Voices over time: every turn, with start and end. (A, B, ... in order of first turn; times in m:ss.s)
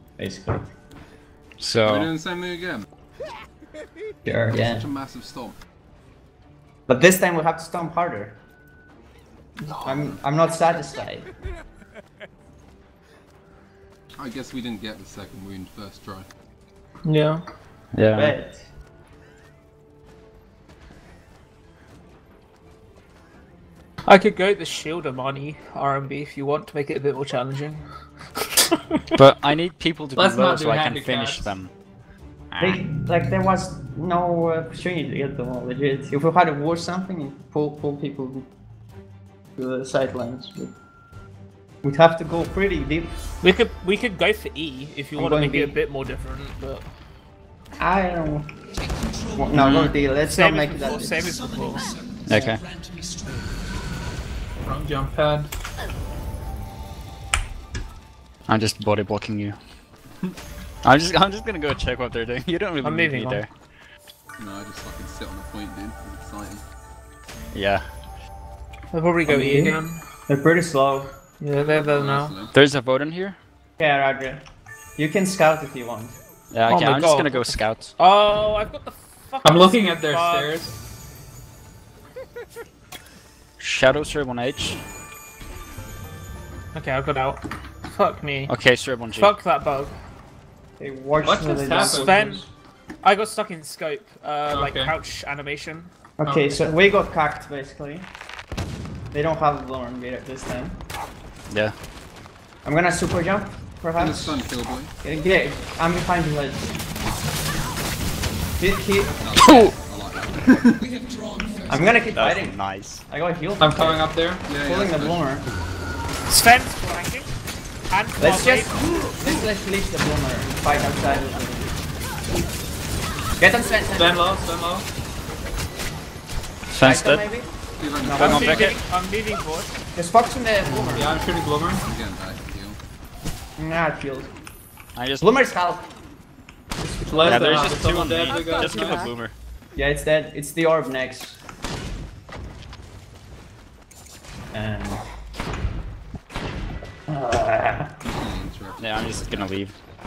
0:00.2-0:00.7 A
0:01.6-0:02.1 B
0:01.8-0:02.8 C
0:04.2-0:04.9 A
0:04.5-0:05.6 C
0:06.9-0:08.4 A
0:09.8-0:11.3 A
0:09.8-0:10.2 C
0:14.2-0:16.3 C
0:17.0-0:17.4 D
0:17.9-0:18.3 B
0:18.1-0:18.7 A
0:24.0-0:27.8 D
0:28.4-0:28.8 D
0:29.2-0:31.7 B
0:30.2-0:31.5 E
0:32.5-0:32.8 B
0:32.6-0:38.5 A
0:39.6-0:40.8 A
0:41.8-0:43.2 A
0:43.4-0:46.9 D
0:45.2-0:45.8 A
0:47.8-0:48.5 A
0:49.4-0:51.4 A
0:49.6-0:49.9 C
0:50.2-0:52.0 D
0:52.3-0:52.6 B
0:52.3-0:52.6 A
0:54.6-0:55.5 E
0:58.5-0:59.6 B
1:00.8-1:03.5 B
1:02.8-1:03.4 D
1:04.4-1:06.6 C
1:07.5-1:07.8 B
1:08.9-1:10.0 D
1:09.3-1:11.1 A
1:11.4-1:12.4 D
1:11.5-1:12.5 C
1:12.5-1:13.4 B
1:13.8-1:14.4 A
1:15.0-1:16.2 A
1:16.5-1:17.9 B
1:16.7-1:20.7 D
1:19.4-1:20.7 E
1:23.6-1:24.8 B
1:26.7-1:28.5 D
1:28.5-1:29.3 B
1:29.2-1:30.0 D
1:30.8-1:32.5 A
1:31.2-1:32.2 E
1:31.7-1:32.4 D
1:33.0-1:35.9 D
1:34.5-1:35.0 E
1:36.2-1:38.1 A
1:36.2-1:36.6 E
1:39.1-1:40.8 A
1:41.5-1:41.7 B
1:42.6-1:44.4 A
1:44.0-1:44.9 C
1:45.0-1:46.7 A
1:48.6-1:49.1 A
1:49.1-1:50.8 C
1:49.4-1:49.7 B
1:51.7-1:55.5 A
1:52.2-1:53.0 B
1:53.6-1:54.4 E
1:54.4-1:55.3 C
1:56.3-1:57.3 D
1:57.9-1:58.8 D
1:58.2-2:01.8 A
2:03.4-2:04.2 A
2:03.9-2:04.9 E
2:06.7-2:07.2 B
2:06.8-2:08.7 A
2:07.8-2:08.7 C
2:08.2-2:08.8 B
2:08.2-2:09.8 D
2:10.0-2:11.2 A
2:10.9-2:11.8 E
2:11.8-2:12.8 C
2:13.6-2:14.3 A
2:15.0-2:15.3 B
2:15.2-2:15.8 A
2:16.8-2:17.7 A
2:17.0-2:19.1 E
2:17.2-2:19.3 B
2:19.8-2:21.4 A
2:24.5-2:25.0 A
2:27.1-2:27.9 A
2:28.0-2:29.6 C
2:28.8-2:29.8 B